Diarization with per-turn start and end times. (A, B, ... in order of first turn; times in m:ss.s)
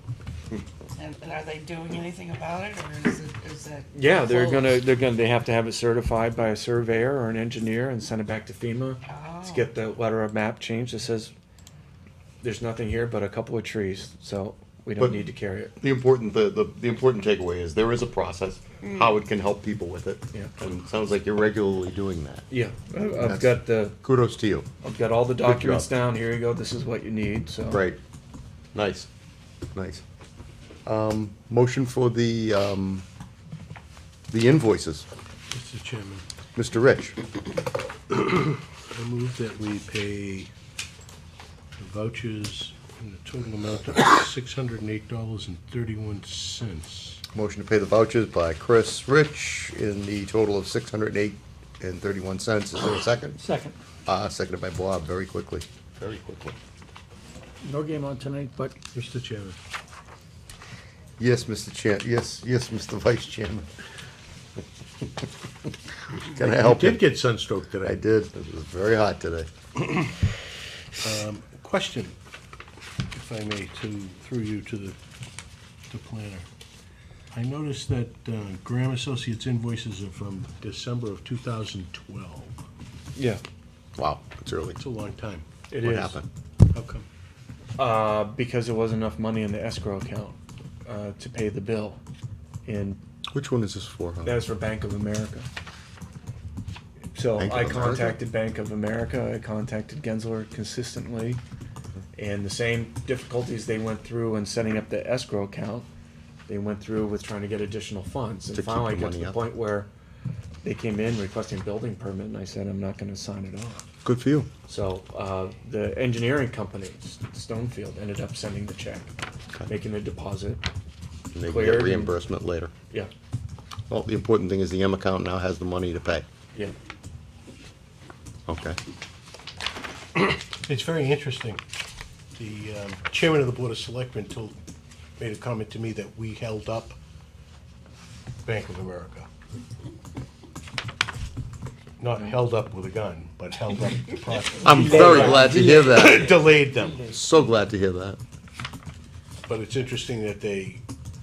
0:00.9-0:04.8 A
0:03.9-0:11.3 B
0:09.1-0:09.7 A
0:12.4-0:15.7 B
0:15.0-0:15.2 C
0:15.8-0:22.5 C
0:18.8-0:19.1 A
0:22.5-0:24.0 B
0:23.1-0:24.7 C
0:24.8-0:27.8 B
0:25.4-0:25.9 C
0:27.7-0:28.0 C
0:28.7-0:29.1 C
0:29.7-0:30.0 C
0:30.9-0:33.0 C
0:34.3-0:35.1 C
0:35.5-0:36.3 D
0:36.6-0:37.2 C
0:38.1-0:40.5 D
0:41.8-0:47.2 D
0:47.3-0:53.4 C
0:53.4-0:53.8 E
0:54.1-0:56.6 C
0:57.6-0:58.8 E
0:58.9-0:59.6 D
1:01.2-1:03.7 C
1:06.1-1:07.0 C
1:06.4-1:08.0 D
1:07.8-1:09.5 C
1:11.0-1:12.2 D
1:13.1-1:15.0 D
1:15.9-1:16.4 D
1:17.3-1:22.6 D
1:23.2-1:23.4 B
1:24.0-1:24.8 C
1:24.8-1:25.5 D
1:25.7-1:26.2 B
1:25.8-1:26.3 C
1:26.7-1:27.0 D
1:27.8-1:32.0 B
1:32.7-1:33.0 B
1:33.3-1:34.4 C
1:34.2-1:35.5 B
1:37.1-1:41.4 B
1:37.4-1:38.2 C
1:42.2-1:45.9 B
1:46.5-1:49.9 B
1:48.5-1:49.4 C
1:50.6-1:53.9 B
1:54.0-1:54.5 C
1:54.7-1:59.1 B
1:59.7-2:00.6 B
2:01.3-2:02.7 C
2:01.4-2:02.2 B
2:03.9-2:06.3 C
2:08.5-2:08.8 C
2:10.2-2:11.6 D
2:12.4-2:14.6 D
2:15.2-2:17.0 D
2:18.4-2:19.3 D
2:22.0-2:27.1 D
2:24.6-2:26.4 E
2:24.6-2:26.4 C
2:27.1-2:28.2 C
2:29.5-2:30.8 D